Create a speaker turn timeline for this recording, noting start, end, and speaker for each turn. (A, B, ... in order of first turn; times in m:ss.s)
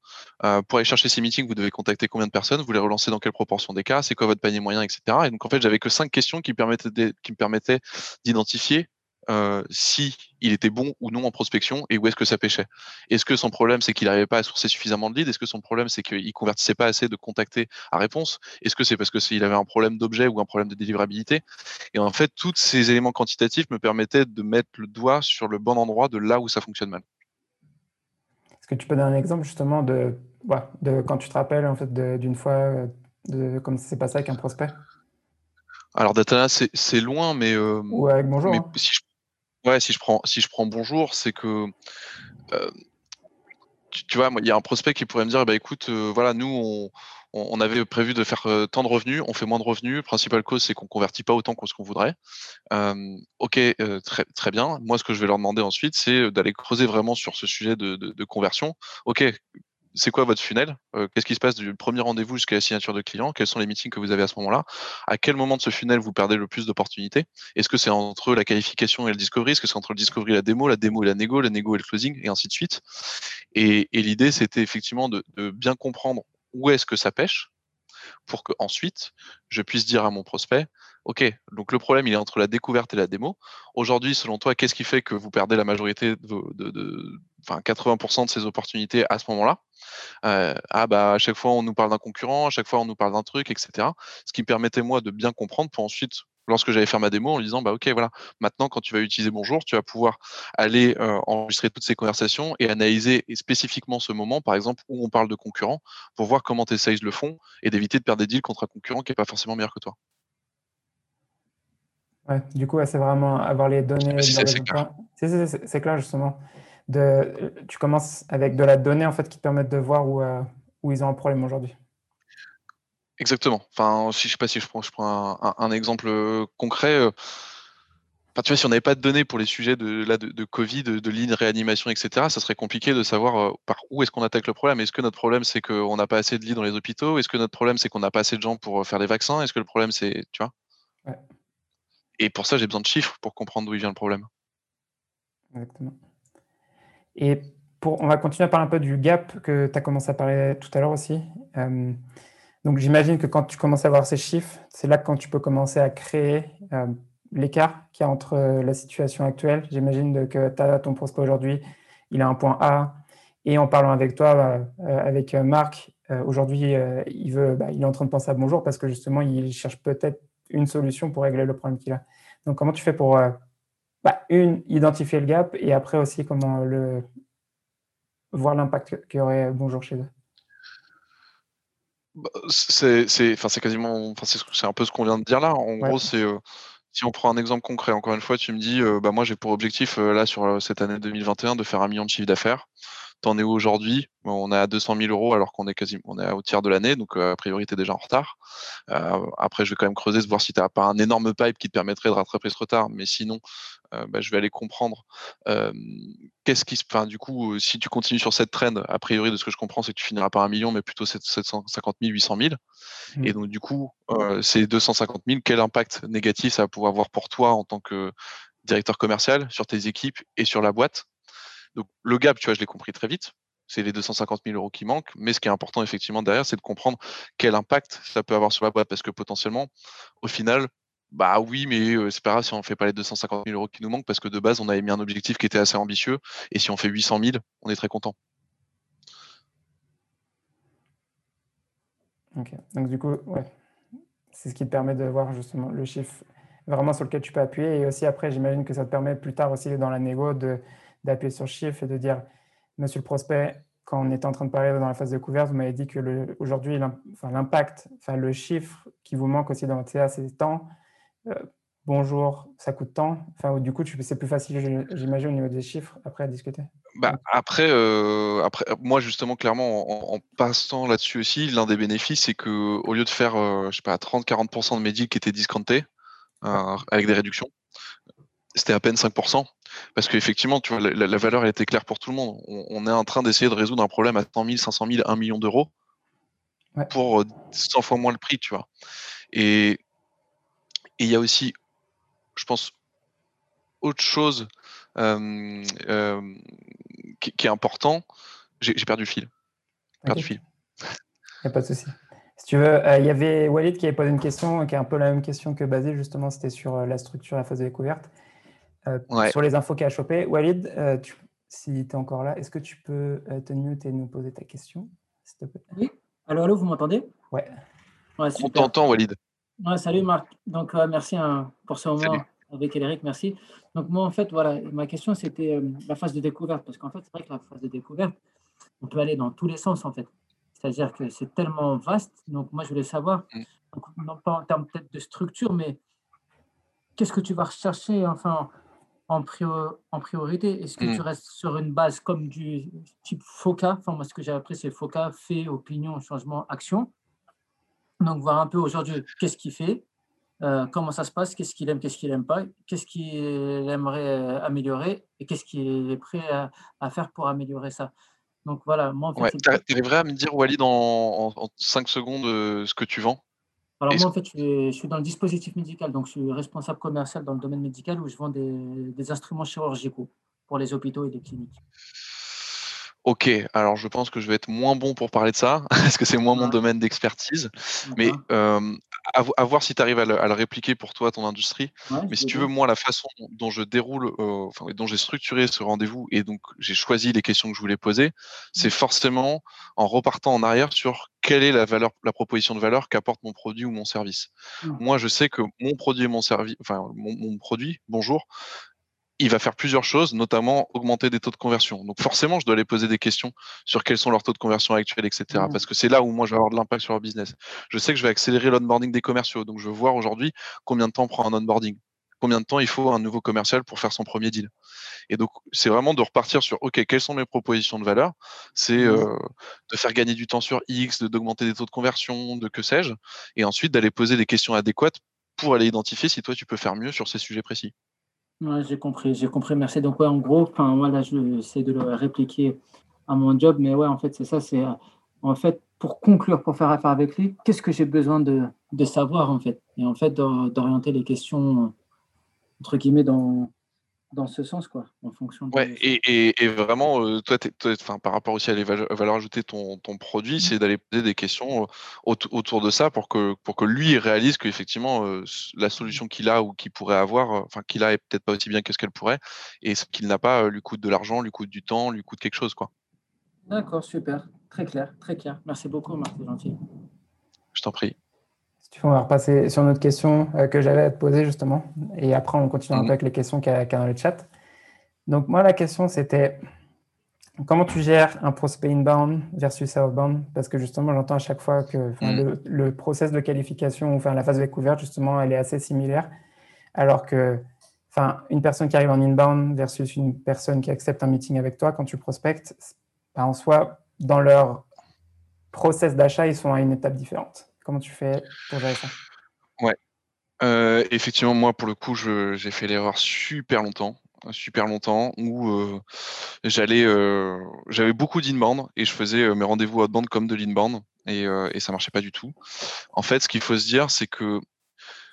0:00.4-0:27.0 A
0:28.6-0:34.8 B
0:36.0-0:39.0 A
0:37.9-0:38.7 B
0:39.6-0:41.7 A
0:43.9-0:52.2 A
0:52.7-0:59.4 A
0:59.9-1:12.8 A
1:13.5-1:17.5 A
1:18.3-1:29.6 A
1:30.2-1:50.0 A
1:52.3-2:01.8 B
1:54.1-1:54.8 A
2:03.2-2:07.1 A
2:08.4-2:20.5 A
2:22.2-2:24.3 A
2:25.5-2:26.0 B
2:27.2-2:32.0 B
2:32.6-2:53.4 B
2:54.0-2:57.1 B
2:58.3-3:00.1 B
3:02.2-3:06.4 A
3:06.9-3:12.7 A
3:13.2-3:18.4 A
3:18.9-3:23.4 A
3:23.9-3:32.6 A
3:33.2-3:38.1 A
3:38.6-3:41.1 A
3:41.7-3:49.7 A
3:50.2-3:58.2 A
4:02.4-4:03.5 B
4:04.3-4:12.2 B
4:12.8-4:20.7 B
4:21.3-4:27.2 B
4:27.0-4:35.9 A
4:36.4-4:37.5 A
4:38.6-4:45.7 A
4:46.9-4:48.7 A
4:49.3-4:49.8 A
4:51.0-4:51.5 A
4:52.4-4:52.7 A
4:53.8-4:56.5 A
4:57.0-4:58.0 A
4:58.6-4:59.3 A
5:00.0-5:00.3 B
5:00.0-5:00.4 A
5:01.4-5:08.1 B
5:08.9-5:15.6 B
5:09.1-5:09.4 A
5:15.7-5:17.1 C
5:18.2-5:18.7 C
5:18.4-5:19.2 A
5:19.6-5:28.2 C
5:28.8-5:35.8 C
5:37.0-5:38.5 C
5:39.1-5:46.9 C
5:48.0-5:49.8 C
5:50.4-5:57.9 C
5:58.4-5:59.6 C
5:59.2-6:03.2 A
6:03.8-6:11.6 C
6:13.0-6:38.3 A
6:17.9-6:18.2 C
6:21.9-6:22.5 C
6:39.2-6:54.5 A
6:45.3-6:45.6 C
6:55.1-7:07.7 A
6:58.8-6:59.1 C
7:08.4-7:21.7 C
7:22.6-7:23.5 C
7:24.1-7:25.9 C
7:25.5-7:42.7 A
7:43.5-7:46.6 C
7:47.6-7:48.0 A
7:48.7-7:54.3 B
7:55.1-7:56.4 B
7:57.4-8:06.1 B
8:06.8-8:14.7 B
8:15.5-8:19.0 B
8:20.4-8:25.8 A
8:26.4-8:32.4 A
8:32.9-8:34.4 A